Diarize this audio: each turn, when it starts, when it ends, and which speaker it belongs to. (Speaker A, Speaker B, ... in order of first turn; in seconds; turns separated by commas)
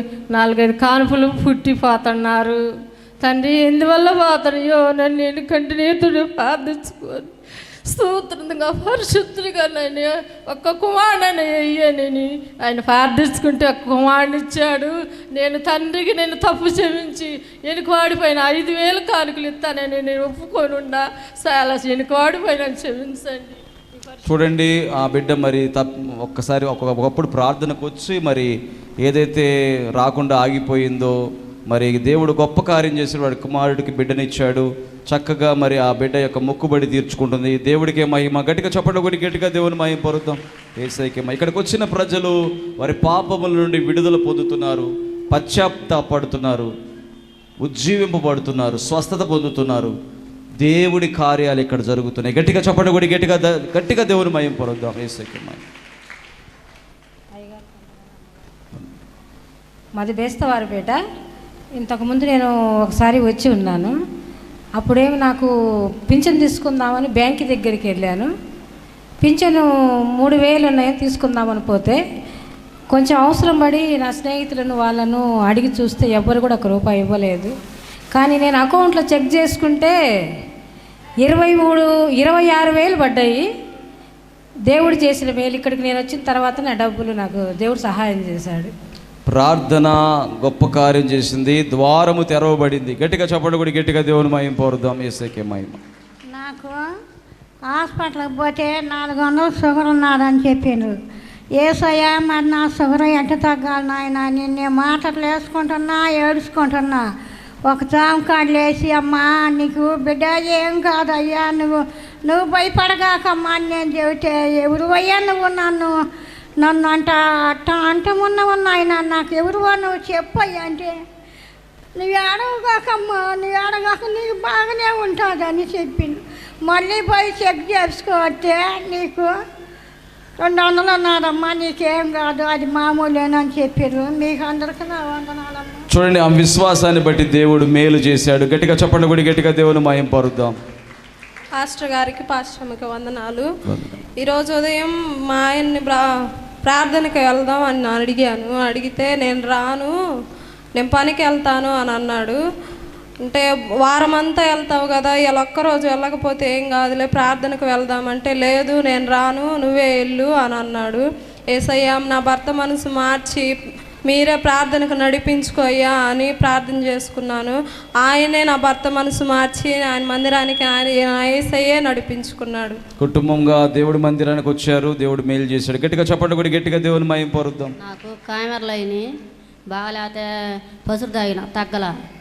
Speaker A: 0.3-2.6, Speaker A: 3.2-7.3, Speaker A: 7.9-23.6, Speaker B: 24.2-31.1, Speaker B: 31.7-46.7, Speaker B: 47.6-49.9, Speaker B: 50.6-55.6, Speaker C: 57.3-58.2, Speaker C: 60.0-61.0, Speaker C: 61.8-63.9, Speaker C: 64.8-65.5, Speaker C: 66.1-68.3, Speaker C: 69.2-69.6, Speaker C: 70.2-72.0, Speaker C: 72.9-77.5, Speaker C: 78.1-79.9, Speaker C: 81.2-83.4, Speaker C: 84.7-88.7, Speaker B: 89.3-95.8, Speaker D: 96.3-96.8, Speaker D: 97.7-100.9, Speaker D: 101.6-107.0, Speaker D: 107.7-111.8, Speaker D: 112.3-115.9, Speaker D: 116.6-121.0, Speaker D: 122.0-129.3, Speaker D: 130.4-135.8, Speaker B: 135.9-140.6, Speaker E: 141.6-143.5, Speaker B: 143.7-144.0, Speaker E: 144.2-146.0, Speaker E: 146.6-149.9, Speaker E: 150.8-152.4, Speaker E: 153.2-161.0, Speaker E: 161.5-163.5, Speaker E: 164.1-172.8, Speaker B: 173.0-177.7, Speaker F: 177.8-179.0, Speaker F: 179.7-180.2, Speaker F: 180.8-181.9